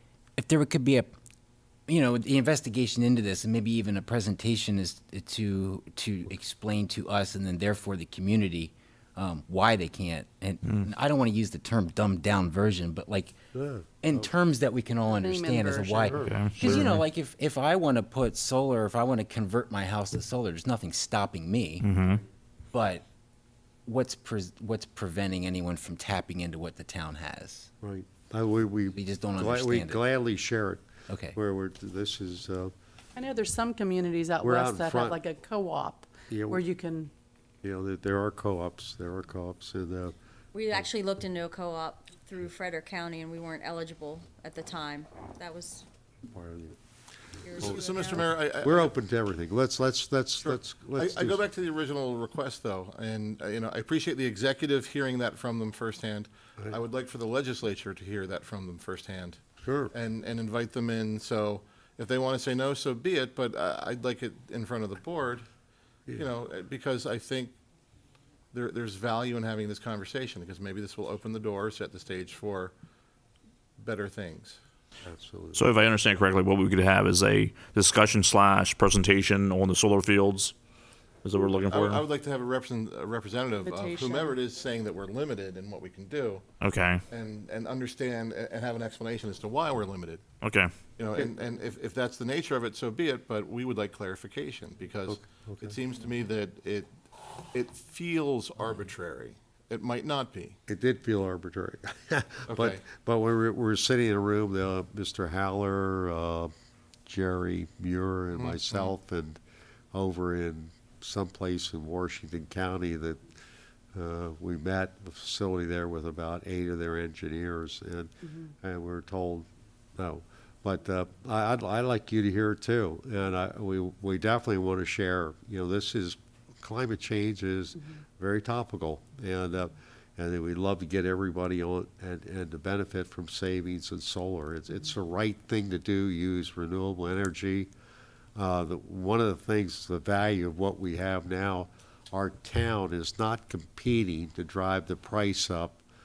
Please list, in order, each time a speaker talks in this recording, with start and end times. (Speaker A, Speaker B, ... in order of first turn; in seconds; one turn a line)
Speaker A: 0.4-1.1
Speaker A: 1.9-13.4
Speaker B: 13.5-14.3
Speaker A: 14.0-21.9
Speaker C: 15.2-16.1
Speaker B: 16.0-16.9
Speaker D: 16.1-17.0
Speaker D: 21.8-22.2
Speaker A: 22.7-23.0
Speaker A: 23.9-27.7
Speaker B: 27.8-32.7
Speaker A: 28.9-30.0
Speaker A: 31.1-31.4
Speaker C: 33.2-37.1
Speaker B: 34.4-35.2
Speaker B: 36.3-36.6
Speaker B: 37.6-40.1
Speaker E: 40.5-45.9
Speaker B: 46.3-46.8
Speaker E: 47.4-48.4
Speaker B: 47.6-51.5
Speaker F: 47.6-49.0
Speaker F: 50.4-59.4
Speaker B: 59.6-59.9
Speaker F: 59.9-65.5
Speaker F: 66.1-67.5
Speaker F: 68.5-72.7
Speaker F: 73.8-74.6
Speaker B: 75.0-75.7
Speaker D: 75.5-80.5
Speaker D: 81.2-82.0
Speaker F: 81.4-86.4
Speaker C: 83.6-84.3
Speaker D: 86.6-87.0
Speaker F: 87.1-90.2
Speaker D: 90.4-90.7
Speaker F: 91.0-96.9
Speaker B: 95.1-95.7
Speaker F: 97.5-100.6
Speaker B: 100.7-106.5
Speaker F: 102.5-102.8
Speaker B: 107.0-109.4
Speaker F: 108.3-108.9
Speaker B: 109.9-113.3
Speaker B: 113.9-137.7
Speaker B: 138.3-145.8